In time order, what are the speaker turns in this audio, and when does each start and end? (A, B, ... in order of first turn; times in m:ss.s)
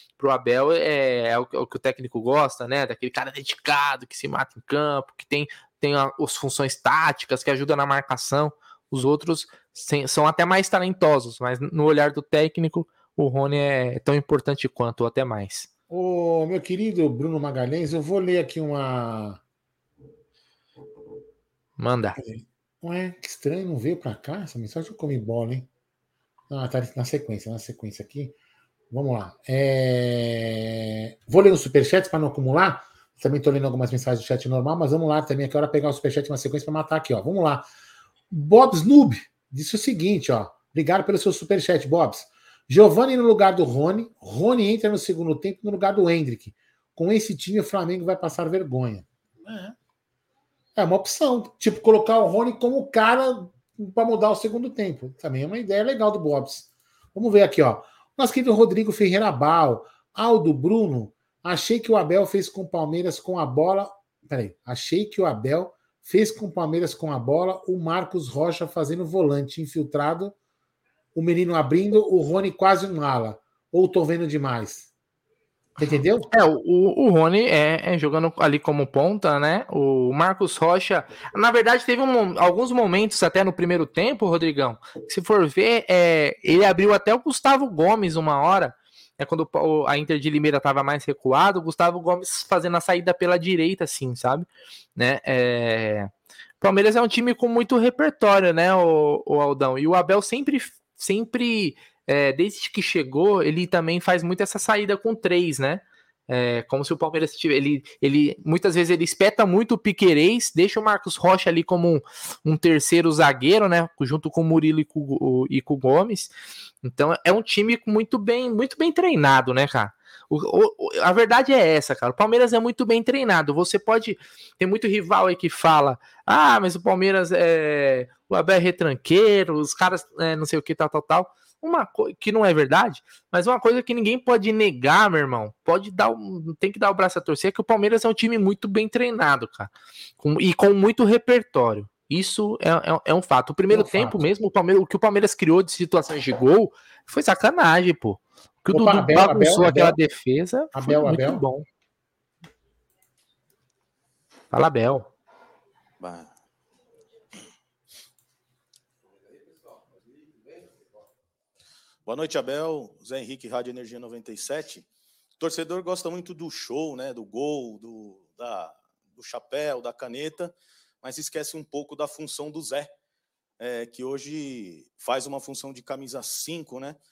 0:00.2-0:15.7 A
0:15.9-0:19.4 B
0:21.8-0:22.2 A
0:22.2-0:25.7 B
0:26.5-0:28.4 B
0:28.9-0:37.7 B
0:38.3-0:49.8 B
0:50.8-1:10.4 B
1:11.2-1:14.9 B
1:15.8-1:16.3 B
1:16.3-1:56.3 A
1:56.8-2:31.7 A
2:23.7-2:24.2 B
2:28.7-2:30.0 B
2:30.7-2:31.4 B
2:34.5-2:35.1 A
2:36.0-2:36.3 C
2:42.1-2:44.9 C
2:45.4-2:52.9 C
2:53.6-2:57.0 C